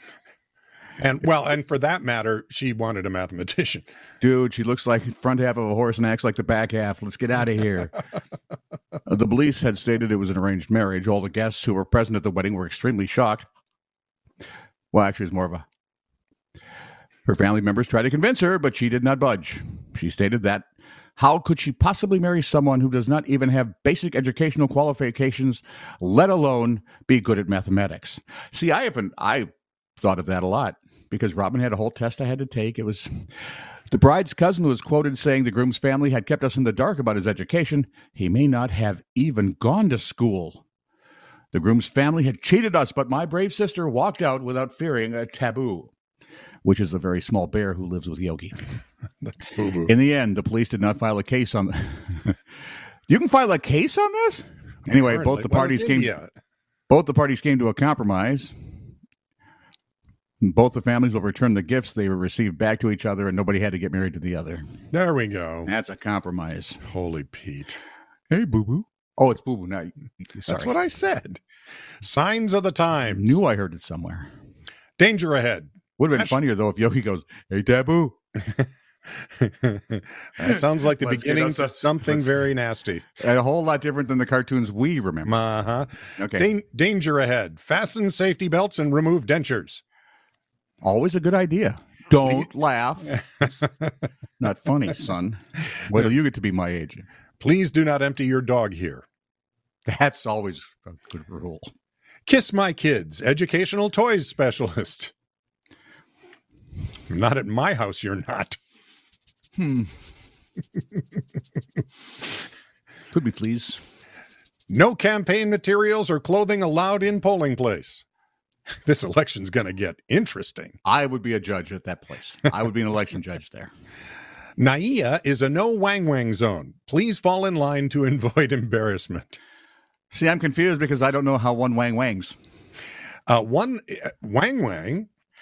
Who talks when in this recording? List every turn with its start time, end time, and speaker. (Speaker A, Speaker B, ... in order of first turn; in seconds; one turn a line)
Speaker A: 1.0-3.9
Speaker B: 4.2-8.0
Speaker B: 9.1-13.5
Speaker B: 14.9-15.6
Speaker B: 17.2-20.6
Speaker B: 21.2-33.1
Speaker B: 33.9-40.6
Speaker B: 41.5-45.9
Speaker B: 46.6-48.6
Speaker A: 49.2-49.9
Speaker B: 49.9-52.4
Speaker B: 53.1-56.1
Speaker A: 54.9-56.3
Speaker B: 56.9-58.5
Speaker B: 60.4-64.6
Speaker A: 64.9-65.7
Speaker B: 65.7-66.8
Speaker A: 66.9-67.8
Speaker B: 68.3-70.7
Speaker A: 70.5-71.4
Speaker A: 72.0-73.4
Speaker B: 73.1-74.3
Speaker A: 75.0-76.4
Speaker B: 76.0-78.2
Speaker A: 79.2-83.1
Speaker B: 80.4-82.4
Speaker B: 83.2-85.4
Speaker A: 85.2-89.8
Speaker B: 86.2-86.5
Speaker B: 90.8-93.2
Speaker B: 94.4-97.1
Speaker A: 97.4-99.0
Speaker B: 99.9-101.7
Speaker A: 102.2-105.1
Speaker A: 107.1-108.6
Speaker B: 109.6-109.9
Speaker B: 113.1-113.8
Speaker A: 114.7-118.0
Speaker A: 118.8-120.8
Speaker B: 120.8-123.7
Speaker A: 124.6-129.4
Speaker B: 130.1-132.3
Speaker A: 133.3-135.1